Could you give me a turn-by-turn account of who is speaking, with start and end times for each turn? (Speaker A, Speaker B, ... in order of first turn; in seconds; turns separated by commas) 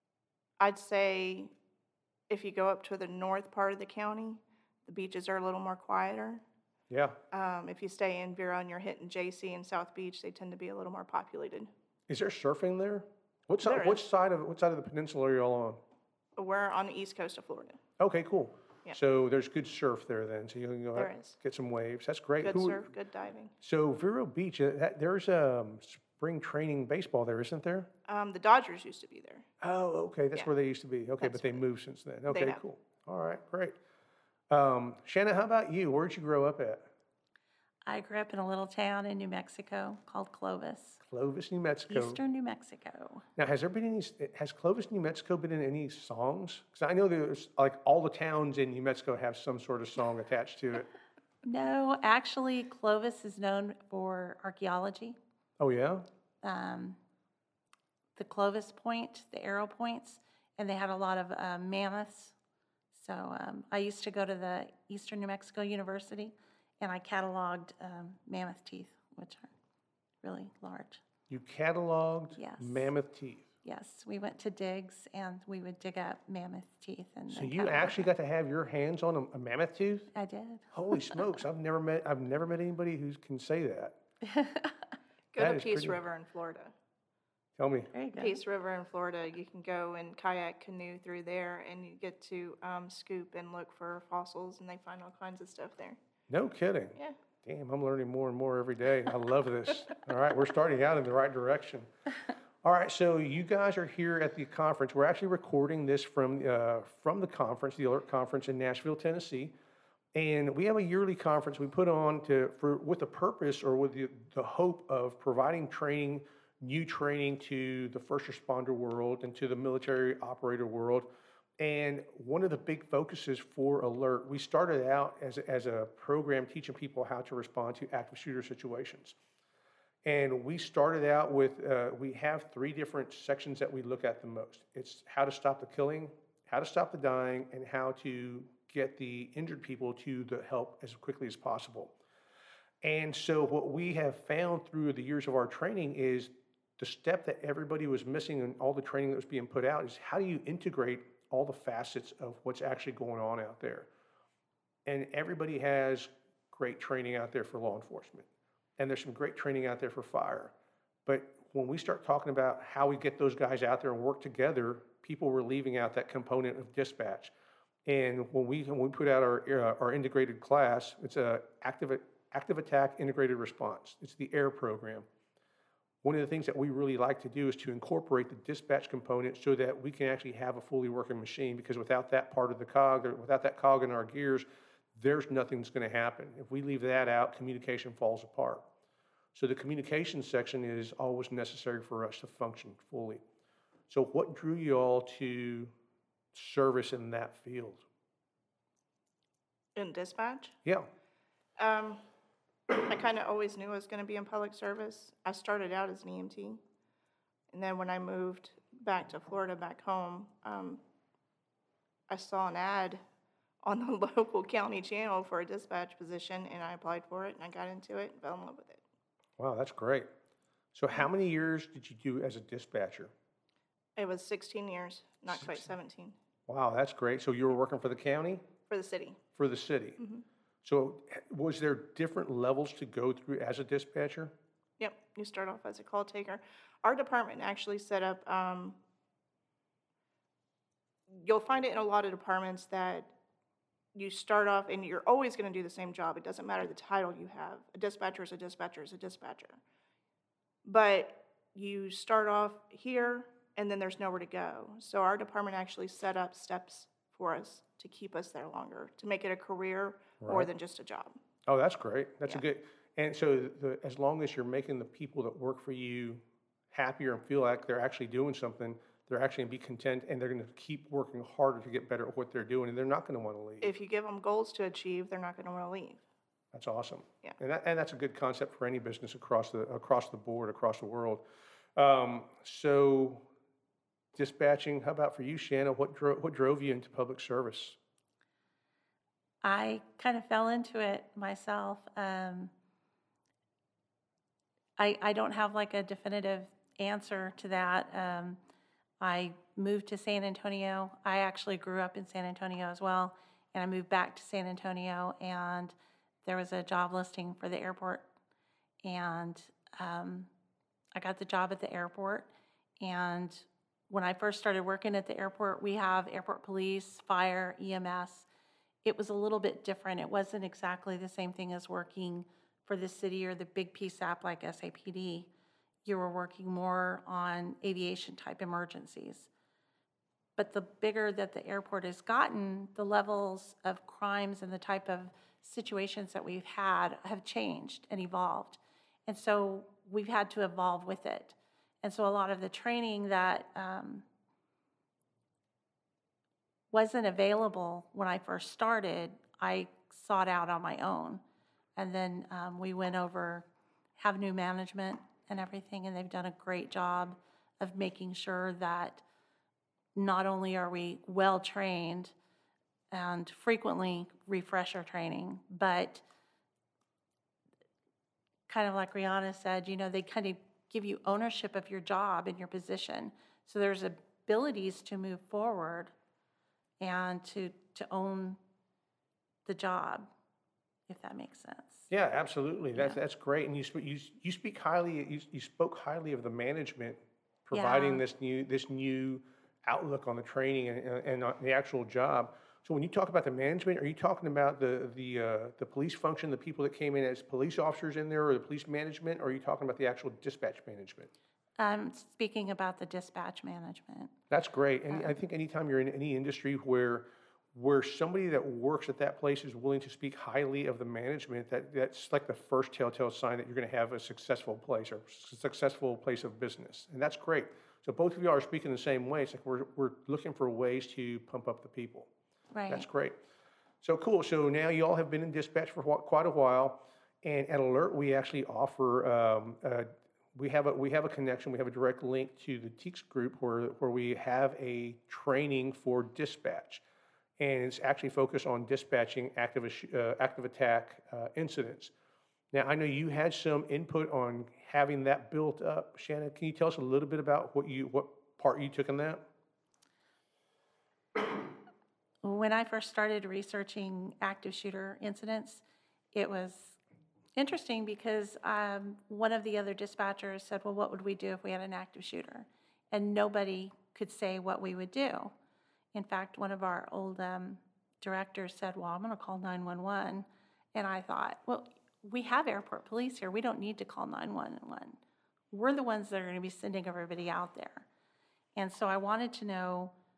Speaker A: 0.6-1.5, Speaker A: 2.3-6.4, Speaker B: 6.9-7.2, Speaker A: 7.3-11.7, Speaker B: 12.1-15.8, Speaker A: 13.6-14.0, Speaker A: 16.4-17.8, Speaker B: 18.0-22.9, Speaker A: 20.9-21.4, Speaker A: 22.4-23.5, Speaker B: 23.6-27.9, Speaker A: 28.1-29.5, Speaker B: 29.6-33.8, Speaker A: 31.2-31.6, Speaker A: 32.3-32.6, Speaker B: 34.5-36.9, Speaker C: 37.9-41.0, Speaker B: 41.0-42.2, Speaker C: 41.9-43.3, Speaker B: 43.4-50.9, Speaker C: 51.4-55.2, Speaker B: 55.6-56.1, Speaker C: 56.4-57.0, Speaker C: 58.2-62.4, Speaker C: 62.9-69.5, Speaker C: 70.2-71.0, Speaker B: 71.3-73.5, Speaker C: 72.4-72.9, Speaker C: 73.6-78.1, Speaker B: 77.3-80.1, Speaker C: 80.2-81.2, Speaker B: 80.7-84.0, Speaker C: 84.3-84.9, Speaker A: 85.3-86.7, Speaker B: 85.4-86.0, Speaker B: 87.6-87.9, Speaker C: 87.9-88.4, Speaker A: 88.2-96.0, Speaker B: 96.3-101.9, Speaker B: 102.6-109.5, Speaker B: 110.2-121.1, Speaker B: 121.6-129.2, Speaker B: 130.1-141.9, Speaker B: 142.8-153.9, Speaker B: 154.9-158.3, Speaker B: 158.8-160.5, Speaker B: 161.1-167.3, Speaker B: 167.9-175.1, Speaker B: 176.0-188.7, Speaker B: 189.3-193.2, Speaker B: 193.9-195.7, Speaker B: 196.3-197.8, Speaker A: 199.8-200.6, Speaker A: 201.6-202.0, Speaker A: 202.7-206.6, Speaker A: 207.5-210.8, Speaker A: 212.1-213.0, Speaker A: 213.6-218.8, Speaker B: 219.4-220.1, Speaker B: 220.7-223.1, Speaker A: 224.0-226.2, Speaker B: 226.5-228.5, Speaker A: 228.7-229.2, Speaker B: 229.3-230.0, Speaker A: 230.0-230.2, Speaker B: 230.6-234.3, Speaker A: 234.8-238.8, Speaker A: 241.1-243.1, Speaker A: 243.9-249.6, Speaker A: 250.7-261.2, Speaker B: 260.2-260.5, Speaker B: 261.5-273.7, Speaker A: 273.6-276.0, Speaker B: 276.5-281.2, Speaker B: 281.8-283.3, Speaker B: 284.1-287.8, Speaker C: 289.4-292.5, Speaker C: 294.8-298.4, Speaker C: 299.0-308.1, Speaker C: 308.8-310.3, Speaker C: 310.9-318.3, Speaker C: 318.8-325.3, Speaker C: 325.9-329.3, Speaker C: 330.4-344.1, Speaker C: 346.7-351.2, Speaker C: 351.8-353.5, Speaker C: 354.0-359.0, Speaker C: 359.9-362.1, Speaker C: 362.9-366.0, Speaker C: 368.5-375.9, Speaker C: 376.8-378.4, Speaker C: 379.5-380.1, Speaker C: 380.9-381.9, Speaker B: 381.9-401.1, Speaker C: 387.5-388.0, Speaker C: 401.6-404.1, Speaker B: 404.3-422.1, Speaker C: 404.9-405.2, Speaker C: 422.5-422.9, Speaker B: 422.7-423.2, Speaker B: 423.8-436.8, Speaker B: 437.4-441.9, Speaker B: 442.5-449.2, Speaker C: 452.2-456.8, Speaker C: 457.4-465.3, Speaker C: 465.9-475.0, Speaker C: 475.5-477.9, Speaker C: 478.6-479.9